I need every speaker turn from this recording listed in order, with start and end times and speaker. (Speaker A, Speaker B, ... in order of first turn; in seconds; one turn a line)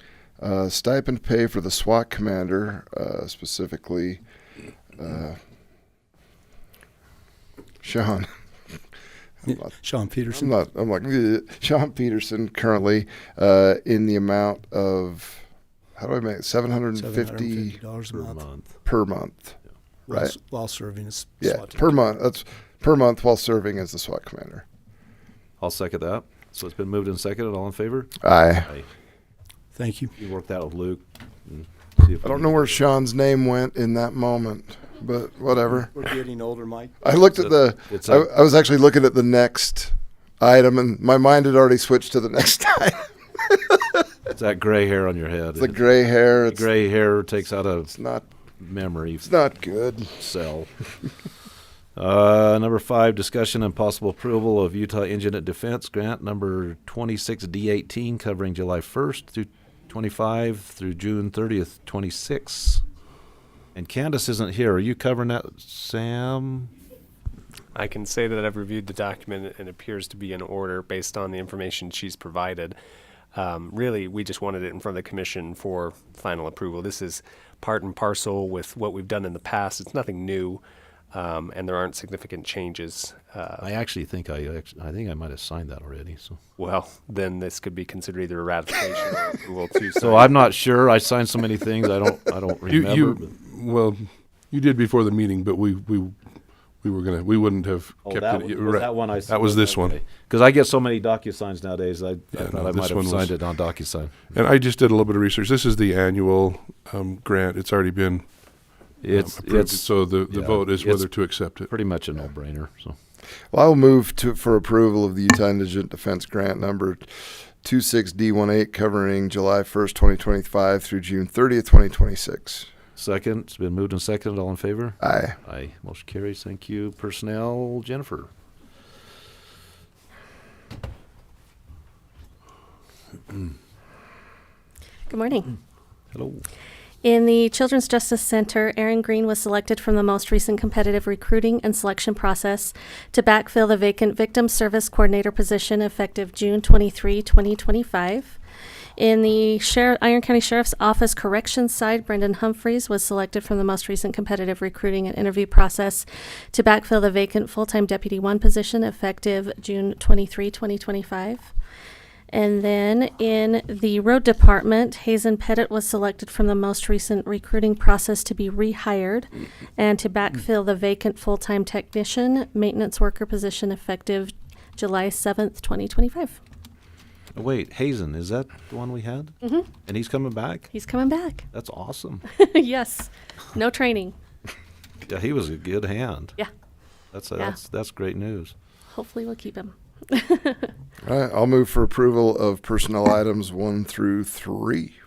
Speaker A: 0.4-4.2
Speaker A: 5.0-5.4
Speaker A: 7.8-8.3
Speaker B: 9.5-10.5
Speaker A: 10.3-15.4
Speaker A: 16.0-17.8
Speaker B: 16.9-18.4
Speaker C: 18.2-18.7
Speaker A: 18.8-19.6
Speaker B: 20.1-21.9
Speaker A: 20.1-20.4
Speaker A: 21.4-24.6
Speaker C: 25.6-28.9
Speaker A: 28.2-28.7
Speaker B: 29.8-30.1
Speaker C: 30.2-32.8
Speaker A: 32.2-36.0
Speaker B: 35.9-36.9
Speaker A: 37.0-44.0
Speaker C: 37.3-38.3
Speaker C: 44.3-47.9
Speaker A: 45.6-46.7
Speaker A: 47.9-48.3
Speaker C: 48.6-49.3
Speaker A: 49.2-50.2
Speaker C: 50.2-50.7
Speaker C: 52.0-62.8
Speaker C: 63.7-66.7
Speaker D: 67.7-72.8
Speaker D: 73.3-83.6
Speaker C: 83.6-86.4
Speaker D: 86.6-90.4
Speaker C: 90.0-93.3
Speaker E: 92.7-100.0
Speaker C: 98.0-104.3
Speaker E: 102.3-103.4
Speaker E: 104.3-108.3
Speaker C: 109.0-111.0
Speaker E: 109.1-111.7
Speaker C: 111.7-112.9
Speaker A: 113.5-122.7
Speaker C: 123.0-128.3
Speaker A: 125.0-125.3
Speaker F: 135.1-135.6
Speaker C: 136.1-136.4
Speaker F: 137.0-148.4
Speaker F: 149.0-161.5
Speaker F: 162.3-176.4
Speaker C: 177.3-180.7
Speaker F: 179.4-179.7
Speaker F: 180.7-181.5
Speaker C: 181.5-182.2
Speaker F: 182.3-184.1
Speaker C: 185.1-186.3
Speaker C: 187.1-188.5
Speaker F: 188.9-190.7
Speaker A: 191.0-194.9